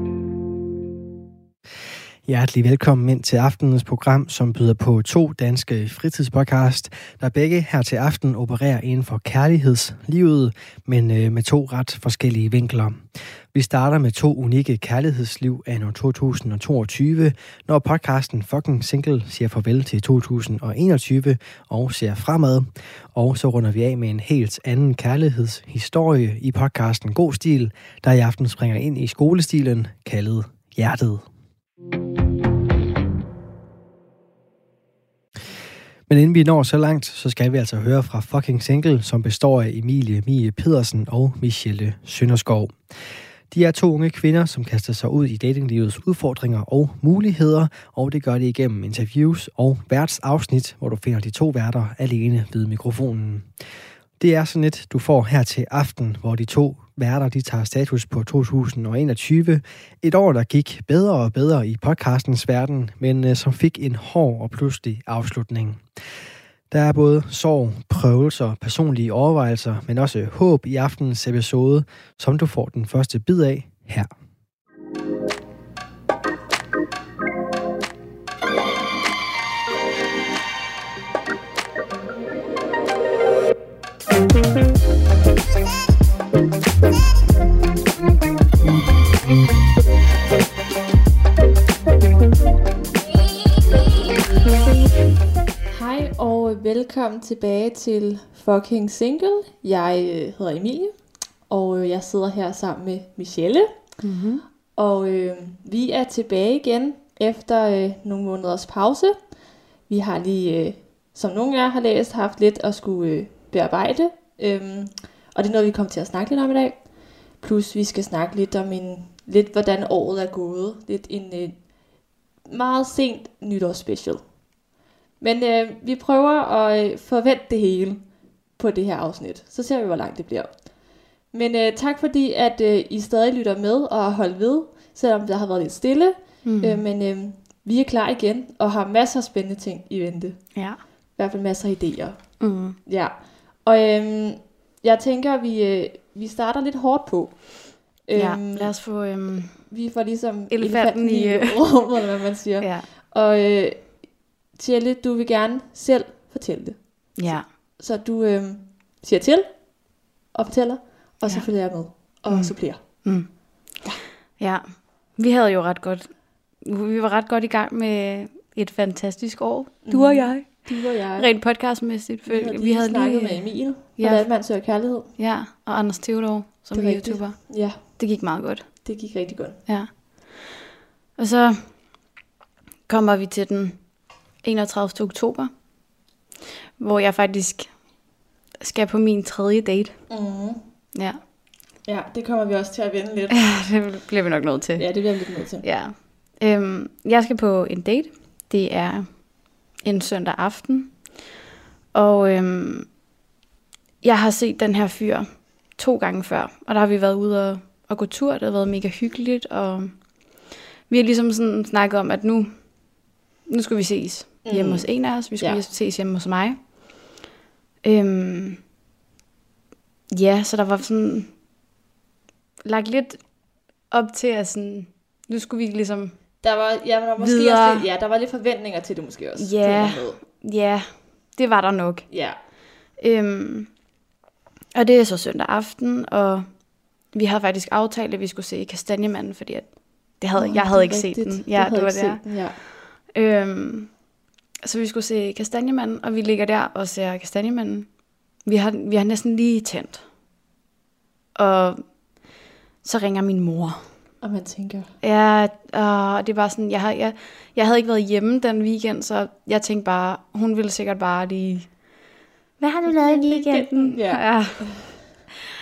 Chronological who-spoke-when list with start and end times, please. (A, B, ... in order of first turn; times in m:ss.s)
0:02.3-0:13.0 A
0:13.5-0:31.3 A
0:36.1-0:42.8 A
0:43.5-0:53.5 A
0:54.2-1:05.8 A
1:06.7-1:14.1 A
1:35.7-1:44.0 B
1:44.0-1:44.4 C
1:44.8-1:49.3 B
1:49.9-2:01.6 B
2:02.4-2:04.2 B
2:05.2-2:08.0 B
2:08.6-2:10.7 B
2:11.3-2:20.6 B
2:16.4-2:16.8 C
2:21.2-2:28.8 B
2:22.4-2:22.8 C
2:28.2-2:29.6 C
2:29.6-2:34.0 B
2:30.5-2:31.9 C
2:32.6-2:32.9 C
2:34.5-2:39.7 B
2:37.2-2:37.5 C
2:40.3-2:43.1 B
2:41.2-2:43.8 C
2:44.4-2:54.3 C
2:49.8-2:51.3 B
2:52.3-2:55.1 B
2:55.2-2:58.8 C
2:56.7-2:58.0 B
2:58.8-2:59.6 B
2:59.7-3:00.6 C
3:01.2-3:01.8 C
3:02.9-3:03.9 C
3:04.4-3:05.5 C
3:06.8-3:07.7 C
3:08.6-3:10.0 C
3:10.1-3:10.6 B
3:11.0-3:11.2 C
3:11.8-3:13.5 B
3:13.3-3:14.9 C
3:14.8-3:15.6 B
3:15.6-3:21.0 C
3:21.9-3:22.9 C
3:24.0-3:30.2 C
3:30.9-3:32.8 C
3:33.5-3:36.6 C
3:34.4-3:35.6 B
3:37.8-3:38.6 C
3:40.1-3:41.3 C
3:42.6-3:43.2 C
3:43.9-3:46.2 C
3:46.4-3:50.2 B
3:47.2-3:47.9 C
3:49.4-3:52.1 C
3:52.1-3:52.4 B
3:53.0-3:53.7 C
3:54.8-3:56.6 C
3:57.1-4:03.9 C
4:00.4-4:02.6 B
4:04.6-4:10.0 C
4:11.4-4:11.9 C
4:12.8-4:13.9 C
4:14.2-4:14.9 B
4:15.0-4:21.8 C
4:22.6-4:24.9 C
4:22.9-4:25.0 B